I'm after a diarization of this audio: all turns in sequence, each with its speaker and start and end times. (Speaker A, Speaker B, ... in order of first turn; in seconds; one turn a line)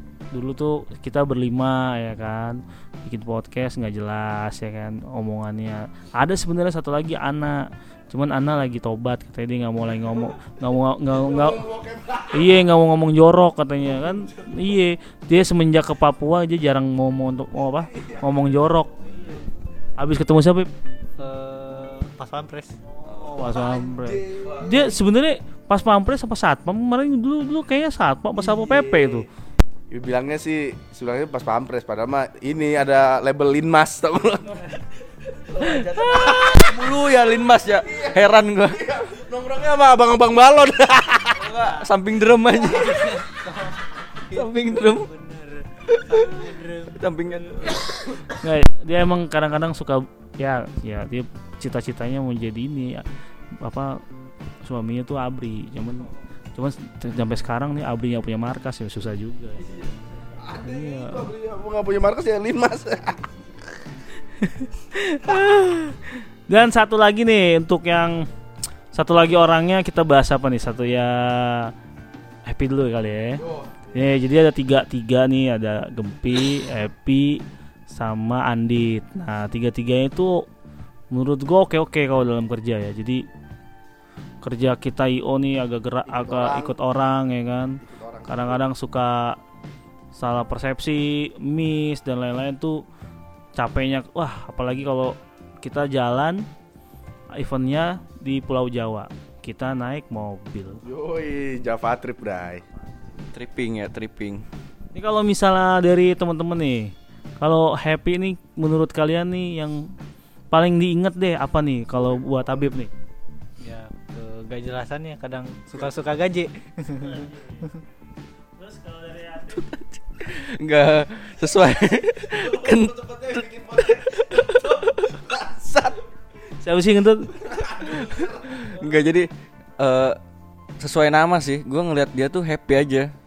Speaker A: 0.3-11.6
Speaker B: 11.1-12.7
Speaker A: 12.3-19.1
Speaker B: 17.7-18.3
Speaker A: 20.0-20.7
Speaker C: 21.2-22.8
Speaker A: 22.9-29.3
Speaker D: 23.1-23.5
Speaker B: 23.4-25.0
Speaker B: 28.4-29.3
Speaker B: 29.9-34.8
Speaker B: 35.5-41.5
Speaker D: 35.6-38.8
Speaker C: 41.4-41.9
Speaker D: 41.4-43.2
Speaker C: 42.7-47.8
Speaker D: 44.3-45.1
Speaker D: 46.1-47.8
Speaker A: 48.3-53.1
Speaker A: 53.6-54.0
Speaker A: 54.6-59.7
Speaker B: 59.7-63.4
Speaker A: 60.6-61.3
Speaker A: 64.4-68.2
Speaker A: 68.9-71.7
Speaker A: 72.5-80.5
Speaker B: 73.4-73.9
Speaker A: 81.1-83.2
Speaker A: 84.4-89.4
Speaker B: 86.1-86.8
Speaker B: 87.8-88.7
Speaker A: 90.2-92.8
Speaker A: 93.6-96.5
Speaker A: 97.3-100.8
Speaker B: 100.8-102.6
Speaker D: 103.3-104.4
Speaker A: 104.9-109.9
Speaker A: 110.5-112.9
Speaker C: 113.6-117.3
Speaker A: 117.0-117.7
Speaker A: 118.6-119.7
Speaker D: 119.6-122.9
Speaker B: 121.8-126.0
Speaker D: 123.8-125.1
Speaker A: 126.6-127.3
Speaker B: 127.3-128.7
Speaker D: 127.8-130.2
Speaker D: 130.8-133.1